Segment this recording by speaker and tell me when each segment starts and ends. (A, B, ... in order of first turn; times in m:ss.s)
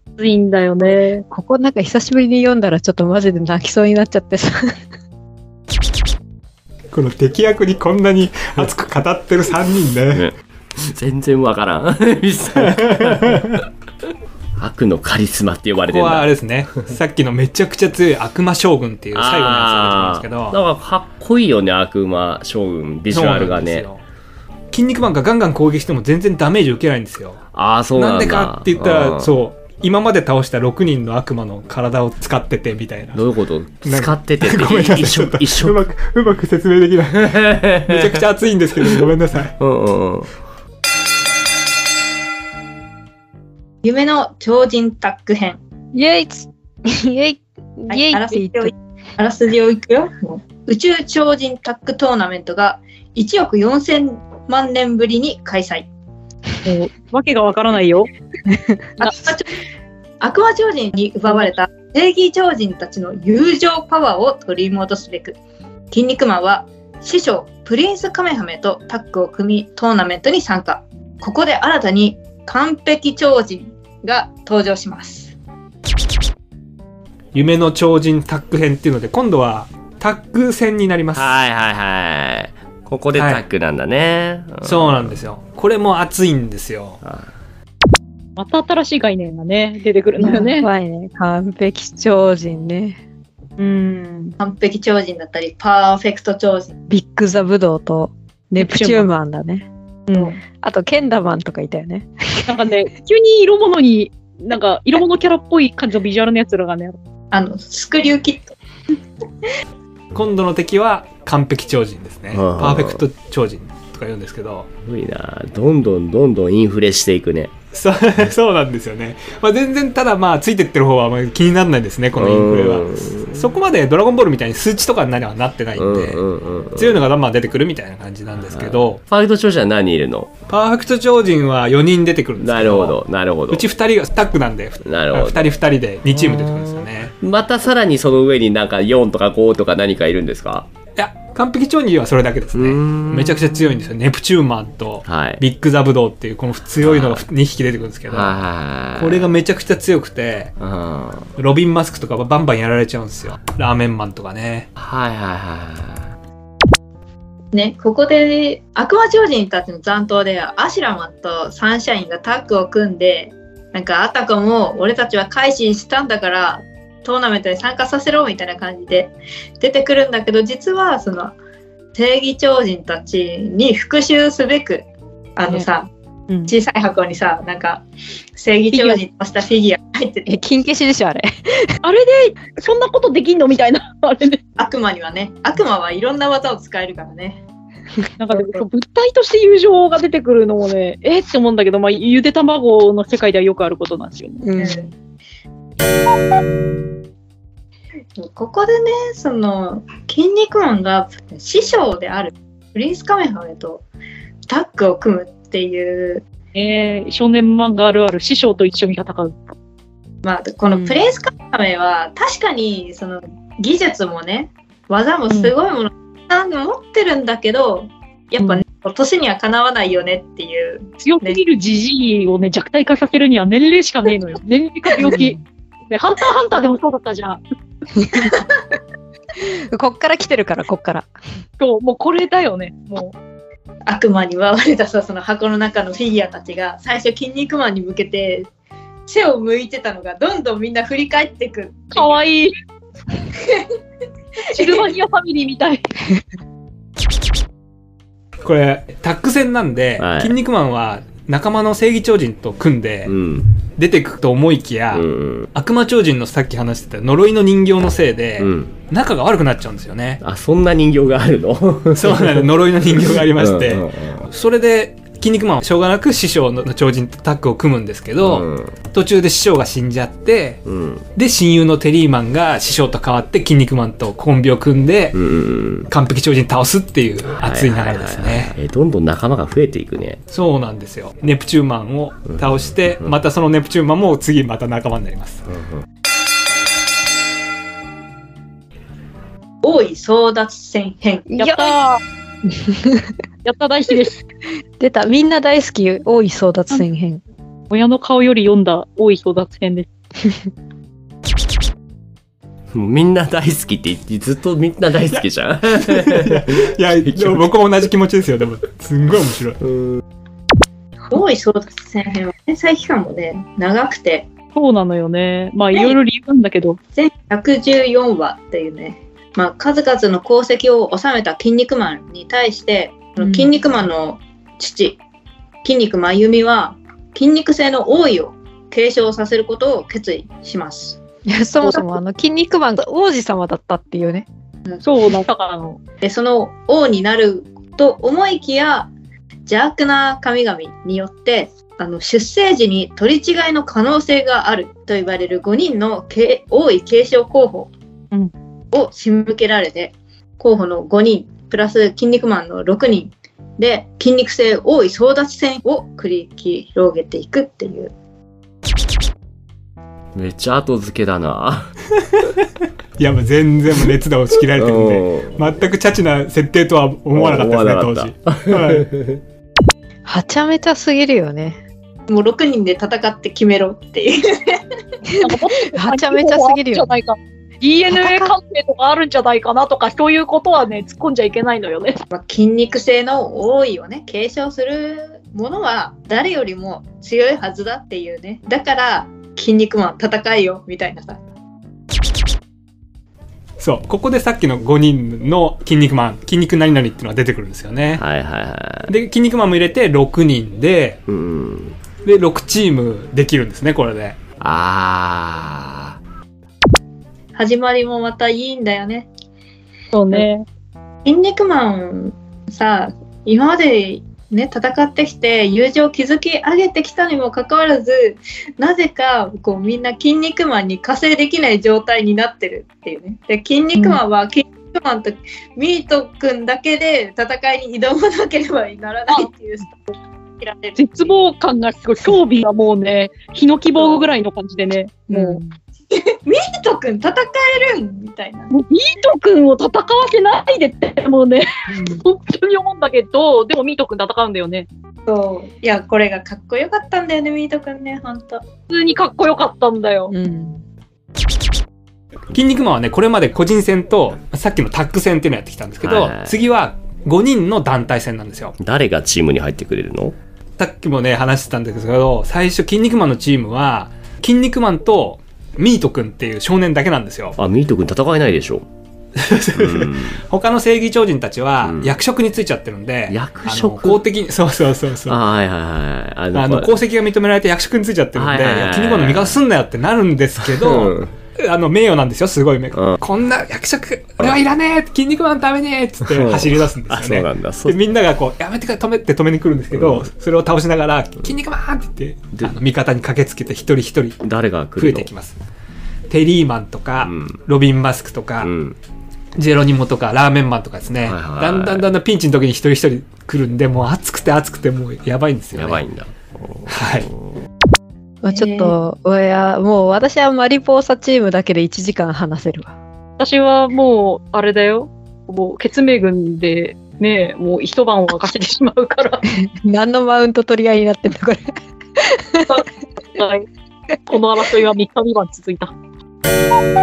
0:00.2-0:01.2 A
0:00.8-0:04.8 B
0:06.9-0:10.3 C
0:10.1-0:13.5 D
0:14.6-0:16.3 D
0:15.9-0:20.6 C
0:19.1-0:23.9 D
0:23.1-0:24.0 C
0:24.7-0:27.4 C
0:27.5-0:29.3 D
0:28.0-0:33.2 C
0:33.1-0:35.8 D
0:33.8-0:39.6 C
0:37.2-0:38.0 D
0:39.6-0:40.3 D
0:43.8-0:45.6 E
0:45.9-0:48.7 B
0:47.9-0:55.9 E
0:56.7-0:58.1 A
0:59.0-0:59.5 E
1:00.2-1:05.4 E
1:05.9-1:15.3 E
1:17.3-1:21.4 C
1:21.1-1:25.2 D
1:23.2-1:23.4 C
1:24.6-1:27.0 C
1:27.0-1:27.3 D
1:28.4-1:30.7 A
1:30.2-1:33.0 B
1:33.6-1:34.4 A
1:34.4-1:36.7 E
1:36.9-1:39.7 B
1:38.6-1:39.1 A
1:40.1-1:40.4 A
1:40.5-1:42.6 B
1:42.5-1:47.0 A
1:47.3-1:48.5 E
1:50.1-1:54.7 C
1:52.3-1:53.0 D
1:54.9-1:57.5 D
1:57.7-2:06.2 C
2:02.2-2:03.4 D
2:05.8-2:07.0 D
2:06.8-2:09.0 C
2:08.4-2:10.3 D
2:10.5-2:13.0 C
2:12.4-2:13.7 D
2:13.5-2:17.1 C
2:14.8-2:15.5 D
2:16.1-2:20.7 D
2:21.0-2:28.4 C
2:22.5-2:23.9 D
2:25.0-2:25.4 D
2:26.8-2:27.3 D
2:28.1-2:29.4 D
2:29.0-2:30.5 C
2:30.6-2:31.3 D
2:31.4-2:34.7 C
2:34.8-2:36.1 D
2:37.5-2:51.4 E
2:52.0-2:55.9 E
2:56.5-2:57.8 E
2:58.4-3:00.4 E
2:58.7-2:59.0 A
3:00.3-3:01.7 B
3:01.8-3:04.4 A
3:04.6-3:07.4 E
3:08.2-3:14.4 A
3:14.4-3:14.9 B
3:14.6-3:14.9 E
3:18.2-3:23.9 E
3:24.5-3:26.2 E
3:26.5-3:29.3 A
3:30.2-3:41.4 E
3:30.8-3:31.0 B
3:41.0-3:45.4 A
3:45.0-3:45.4 B
3:45.9-3:47.4 A
3:48.0-3:48.3 B
3:49.7-3:51.1 B
3:51.6-3:53.2 A
3:53.9-3:58.5 E
3:59.1-4:02.2 E
4:01.9-4:02.5 A
4:04.5-4:05.9 A
4:04.6-4:04.9 E
4:08.4-4:13.1 C
4:10.0-4:10.4 D
4:13.1-4:13.5 D
4:13.8-4:20.2 C
4:14.9-4:15.5 D
4:18.4-4:18.7 D
4:20.2-4:24.2 D
4:22.0-4:30.6 C
4:28.2-4:28.8 D
4:30.7-4:31.1 D
4:31.2-4:35.2 C
4:35.1-4:35.9 D
4:35.9-4:38.5 C
4:37.3-4:40.2 D
4:40.3-4:45.4 C
4:42.3-4:43.2 D
4:45.5-4:45.8 D
4:49.6-4:51.3 E
4:51.3-4:51.7 B
4:51.4-4:52.0 A
4:52.5-4:53.1 B
4:53.4-4:54.2 A
4:54.8-4:57.2 B
4:57.7-4:59.9 A
5:02.7-5:06.4 D
5:05.8-5:09.6 C
5:07.0-5:07.4 D
5:09.7-5:10.0 D
5:11.1-5:14.3 E
5:14.5-5:16.8 A
5:17.0-5:25.0 E
5:23.2-5:23.5 B
5:25.6-5:31.0 E
5:31.3-5:34.3 B
5:34.8-5:35.8 A
5:36.0-5:38.9 E
5:39.5-5:47.7 E
5:48.7-5:57.9 E
6:00.2-6:01.7 D
6:03.0-6:08.9 C
6:04.6-6:05.6 D
6:07.1-6:09.2 D
6:10.1-6:11.6 B
6:12.1-6:14.6 E
6:15.1-6:16.9 B
6:15.2-6:22.0 A
6:17.9-6:18.3 B
6:22.1-6:31.2 E
6:33.6-6:38.0 C
6:37.9-6:38.9 D
6:38.9-6:41.0 C
6:41.1-6:41.8 D
6:42.0-6:44.2 C
6:44.4-6:46.0 D
6:47.4-6:49.1 E
6:49.9-6:50.5 A
6:51.0-7:09.8 E
7:10.4-7:11.1 E
7:10.8-7:15.4 A
7:15.1-7:15.5 B
7:15.9-7:18.5 E
7:18.5-7:24.7 A
7:21.7-7:22.0 B
7:25.1-7:28.4 E
7:28.7-7:30.1 A
7:30.1-7:30.6 B
7:32.3-7:38.6 C
7:35.8-7:36.4 D
7:38.6-7:40.2 D
7:40.6-7:47.4 C
7:47.4-7:48.7 D
7:49.2-7:55.2 C
7:49.6-7:50.2 D
7:51.6-7:52.0 D
7:53.1-7:54.0 D
7:55.1-7:56.8 D
7:56.3-8:14.2 C
7:58.2-7:59.4 D
8:00.4-8:01.1 D
8:06.1-8:07.8 D
8:09.7-8:10.1 D
8:14.2-8:15.1 D
8:14.8-8:15.4 C
8:16.1-8:18.5 C
8:17.0-8:17.4 D
8:18.4-8:18.8 D
8:19.4-8:25.8 C
8:21.0-8:21.9 D
8:25.5-8:27.2 D
8:26.7-8:27.1 C
8:28.2-8:32.8 B
8:28.3-8:28.8 E
8:33.2-8:39.2 A
8:39.3-8:41.4 B
8:42.0-8:42.6 B
8:43.2-8:43.5 A
8:44.1-8:45.7 A